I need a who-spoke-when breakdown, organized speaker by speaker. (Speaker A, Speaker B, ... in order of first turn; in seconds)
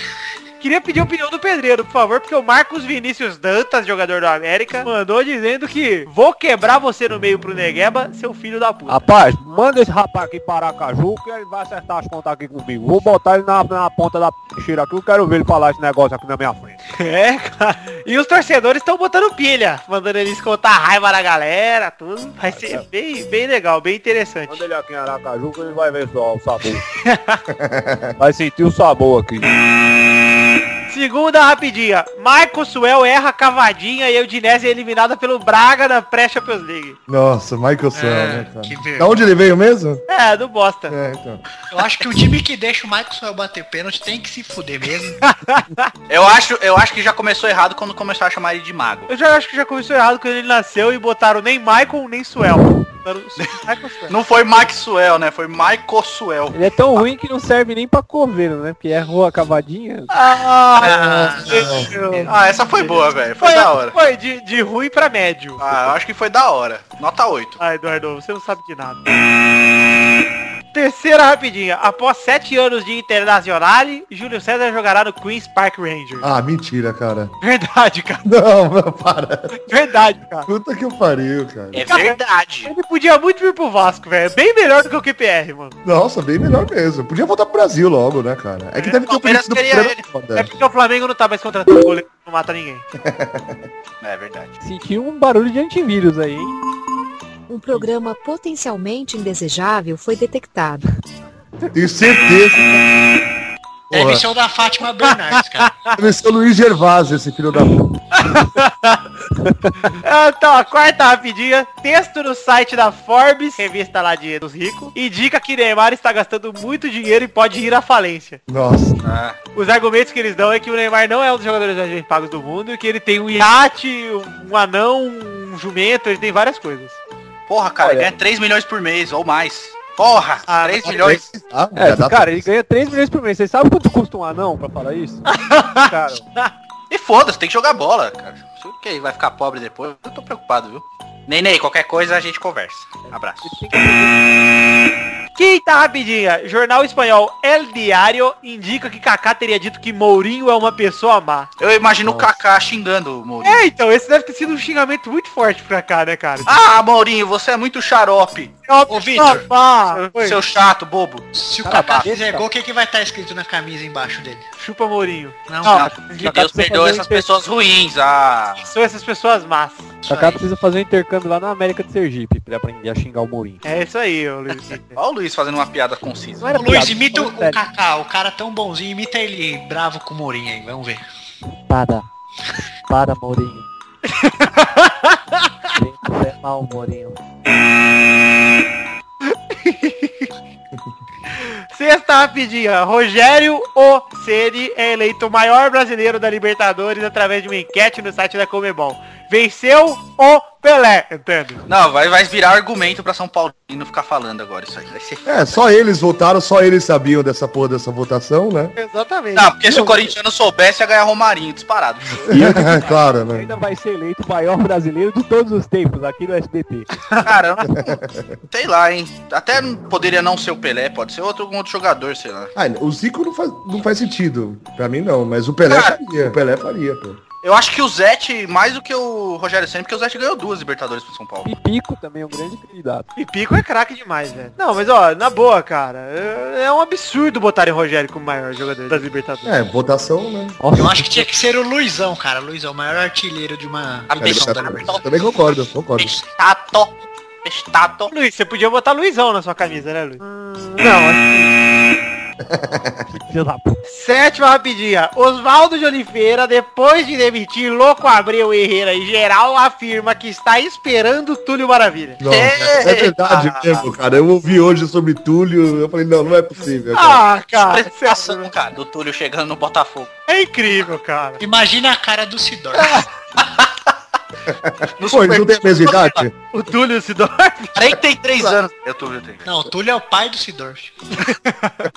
Speaker A: 0.6-9.1, 16.9-24.6, 27.0-27.4, 30.9-37.0, 40.1-41.0, 45.2-45.9, 49.1-54.1, 60.1-65.7, 67.6-69.2, 70.7-76.3, 77.4-78.2, 79.6-80.5, 81.9-85.8, 90.3-92.8, 105.1-105.9, 108.1-109.0, 110.0-118.4, 119.5-127.0, 130.5-131.0, 135.3-136.5, 145.3-151.5, 153.4-156.5, 158.7-160.4, 164.6-166.3, 168.6-169.9, 173.6-175.0, 184.1-185.5, 189.2-190.3, 191.4-201.6, 208.8-209.5, 233.1-239.5, 248.1-250.2, 253.8-262.2, 266.9-268.5, 270.3-271.4, 272.8-273.0, 276.5-277.8, 281.3-281.7
Speaker B: 8.9-16.8, 22.5-22.8, 24.5-26.8, 28.2-29.5, 56.5-60.1, 94.6-96.6, 127.8-128.1, 131.8-136.2, 143.1-144.2, 161.6-162.5, 165.7-167.2, 170.1-173.6, 176.4-177.6, 181.7-182.1, 182.9-183.7, 185.7-187.2, 212.3-216.9, 231.4-233.1, 240.6-241.3, 250.2-251.5, 253.1-253.8
Speaker C: 27.5-28.1, 37.1-40.0, 40.9-41.4, 60.8-62.2, 76.2-77.3, 78.2-79.6, 80.5-81.9, 85.8-90.5, 93.0-93.7, 101.7-102.8, 103.9-104.2, 106.0-107.8, 118.5-119.0, 130.8-132.5, 205.2-208.7, 212.3-213.5, 217.7-218.4, 222.6-227.2, 239.4-240.6, 244.2-246.1, 252.4-253.1, 262.2-267.2, 274.5-276.3
Speaker D: 37.9-39.1, 41.7-45.2, 60.8-61.7, 103.9-105.8, 158.9-159.4, 161.3-164.4, 165.5-165.9, 176.5-181.0, 240.7-244.9, 271.4-273.0, 279.4-280.9
Speaker E: 46.1-49.1, 54.1-57.0, 62.2-63.9, 65.6-67.6, 81.7-82.7, 89.1-90.0, 94.0-94.5, 119.0-119.4, 127.5-131.2, 136.9-143.6, 151.6-153.7, 156.4-158.5, 160.0-161.3, 165.7-168.6, 170.0-170.4, 174.9-176.5, 201.7-205.6, 209.3-212.3, 217.2-217.8, 218.5-222.5, 225.7-226.0, 227.4-231.5, 244.1-245.0, 245.9-248.1, 262.2-263.8, 267.5-270.1, 275.0-276.2, 277.7-279.4
Speaker F: 97.5-100.8